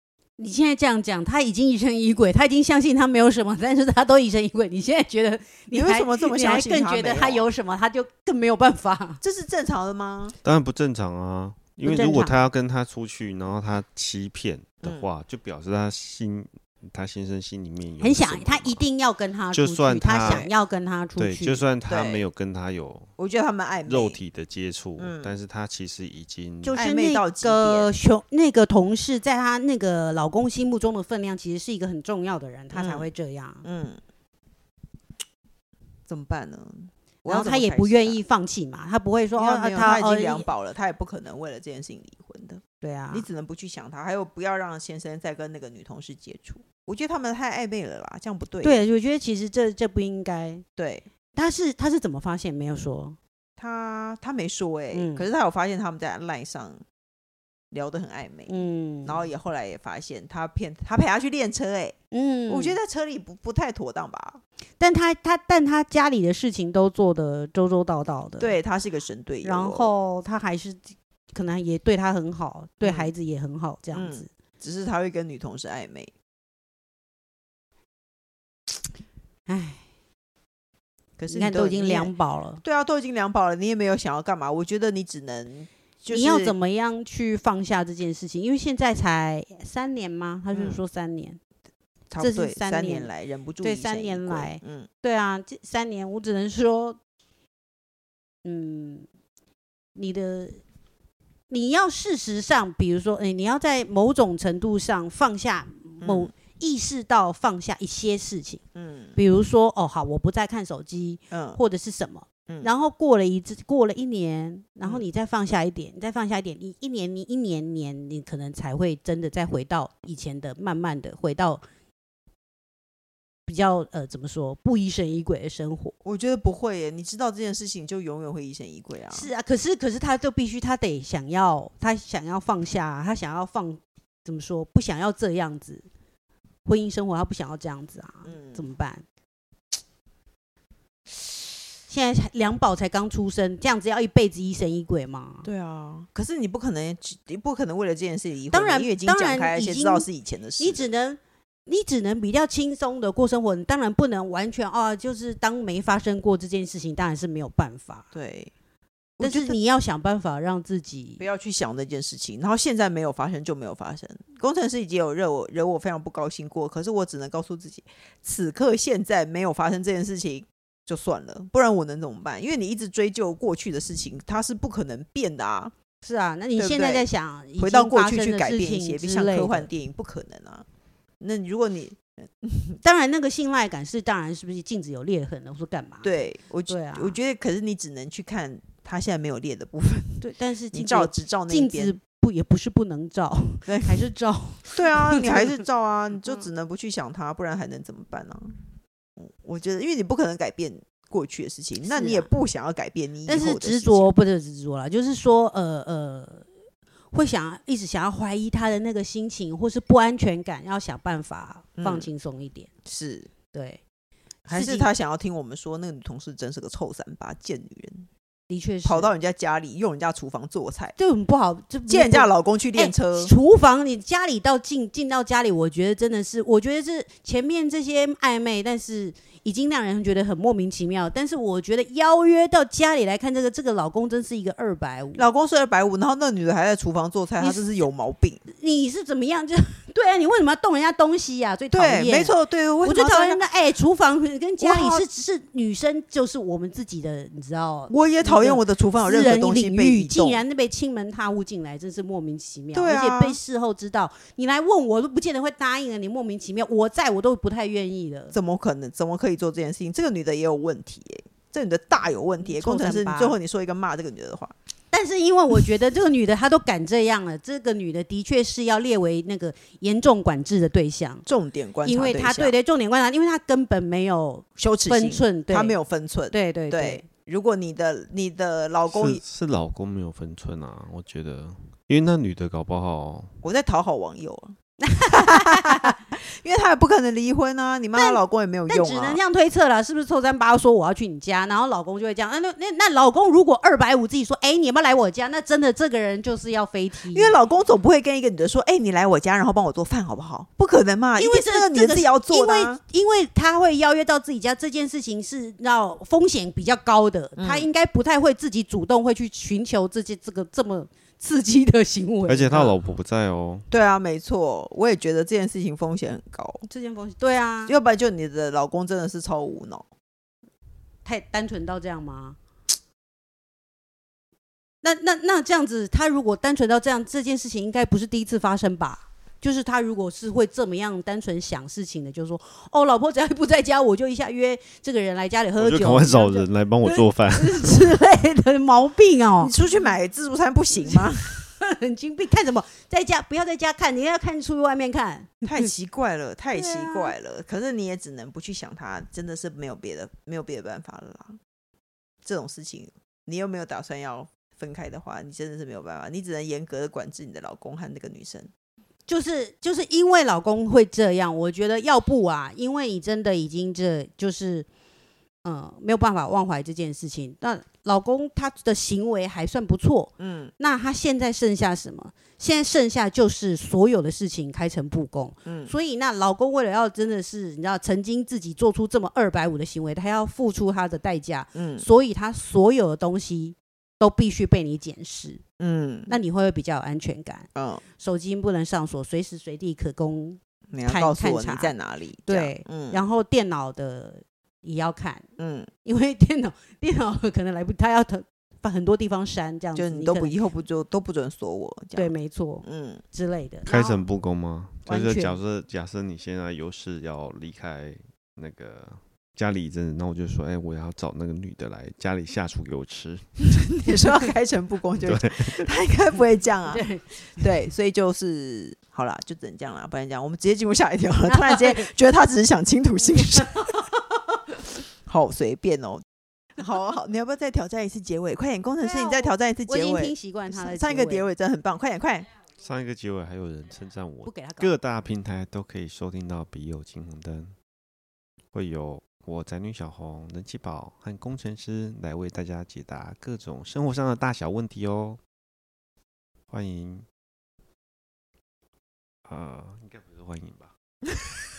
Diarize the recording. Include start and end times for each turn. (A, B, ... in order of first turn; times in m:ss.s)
0:00.4-0:09.2 A
0:05.7-0:07.5 B
0:09.2-0:10.3 B
0:10.4-0:18.9 C
0:11.8-0:12.4 A
0:14.8-0:15.1 B
0:18.0-0:21.6 A
0:19.5-0:20.4 C
0:20.2-0:20.5 B
0:21.2-0:23.1 C
0:21.8-0:22.2 B
0:23.2-0:24.2 B
0:23.8-0:26.8 C
0:25.0-0:25.4 B
0:26.6-0:33.6 A
0:26.7-0:27.9 B
0:32.7-0:33.1 B
0:33.6-0:34.0 B
0:36.1-0:38.2 B
0:37.3-0:40.4 A
0:39.4-0:48.8 B
0:42.8-0:43.2 A
0:48.6-0:50.6 A
0:50.8-0:51.0 B
0:51.3-0:53.2 A
0:53.6-0:56.8 B
0:54.9-0:55.2 A
0:57.7-0:58.5 B
0:58.5-0:59.2 A
0:59.0-1:02.0 B
1:02.1-1:02.8 A
1:02.5-1:04.4 B
1:04.8-1:08.6 A
1:08.4-1:09.9 B
1:09.4-1:10.8 A
1:11.3-1:14.3 A
1:12.8-1:13.1 B
1:13.9-1:16.1 B
1:19.5-1:19.8 A
1:21.2-1:26.5 B
1:21.3-1:22.6 A
1:26.1-1:31.4 A
1:30.5-1:30.8 B
1:32.1-1:34.9 B
1:32.2-1:33.1 A
1:33.6-1:37.0 A
1:38.4-1:39.0 A
1:40.0-1:40.6 A
1:41.5-1:48.6 A
1:46.0-1:46.3 B
1:48.8-1:49.2 B
1:49.2-2:01.6 A
1:51.3-1:51.6 B
2:03.5-2:05.9 A
2:06.0-2:09.3 B
2:09.1-2:15.8 A
2:16.6-2:19.0 A
2:18.2-2:18.7 B
2:21.9-2:25.5 A
2:25.4-2:30.8 B
2:28.5-2:30.0 A
2:30.6-2:38.1 A
2:38.1-2:38.5 B
2:39.2-2:39.6 B
2:39.2-2:41.2 A
2:41.2-2:55.7 B
2:56.0-2:59.7 A
2:56.6-3:00.6 B
3:01.2-3:02.8 B
3:02.8-3:06.1 A
3:06.0-3:11.9 B
3:06.7-3:07.2 A
3:10.2-3:15.6 A
3:13.7-3:14.0 B
3:14.7-3:18.5 B
3:19.2-3:24.1 B
3:21.9-3:22.3 A
3:23.2-3:26.4 A
3:27.1-3:32.7 A
3:31.8-3:32.1 B
3:32.8-3:33.3 B
3:33.5-3:33.8 A
3:34.5-3:38.1 B
3:34.5-3:34.9 A
3:38.5-3:39.1 A
3:38.8-3:40.9 B
3:41.0-3:55.2 A
3:41.9-3:43.3 B
3:55.2-3:58.4 B
3:57.4-3:57.7 A
3:58.5-4:18.3 A
4:01.7-4:03.4 B
4:04.6-4:05.0 B
4:07.9-4:10.4 B
4:12.7-4:13.4 B
4:18.3-4:24.5 B
4:22.4-4:23.4 A
4:24.9-4:31.2 A
4:31.2-4:32.5 B
4:31.8-4:35.8 A
4:34.6-4:39.2 B
4:36.3-4:37.0 A
4:38.9-4:43.3 C
4:43.4-4:44.5 B
4:44.8-4:46.0 A
4:45.1-4:49.2 B
4:47.9-4:57.4 A
4:57.0-5:02.8 B
5:01.2-5:12.7 A
5:07.4-5:07.7 B
5:12.2-5:13.7 C
5:13.7-5:16.7 B
5:16.7-5:17.7 A
5:17.6-5:19.8 B
5:21.0-5:22.4 A
5:24.8-5:39.5 A
5:35.6-5:37.8 C
5:39.4-5:41.3 B
5:40.9-5:45.7 A
5:45.4-5:51.4 B
5:46.5-5:47.1 A
5:52.2-5:58.5 B
5:59.1-6:04.6 A
6:05.4-6:25.4 A
6:10.2-6:10.5 B
6:15.4-6:15.7 B
6:21.5-6:21.8 B
6:25.6-6:26.1 B
6:26.1-6:27.5 A
6:27.5-6:27.8 B
6:28.0-6:31.7 A
6:30.7-6:33.0 B
6:32.3-6:35.2 A
6:35.4-6:35.7 B
6:35.8-6:40.4 A
6:39.7-6:43.0 B
6:42.0-6:44.0 A
6:43.6-6:53.4 C
6:44.8-6:45.4 A
6:53.5-7:03.8 B
6:55.0-6:55.7 C
6:56.7-6:57.5 A
7:01.3-7:01.9 A
7:03.2-7:03.7 A
7:05.0-7:06.0 B
7:06.6-7:12.3 B
7:08.8-7:11.3 A
7:12.6-7:17.5 C
7:14.2-7:14.8 A
7:18.5-7:25.2 C
7:26.5-7:27.0 C
7:29.2-7:30.7 C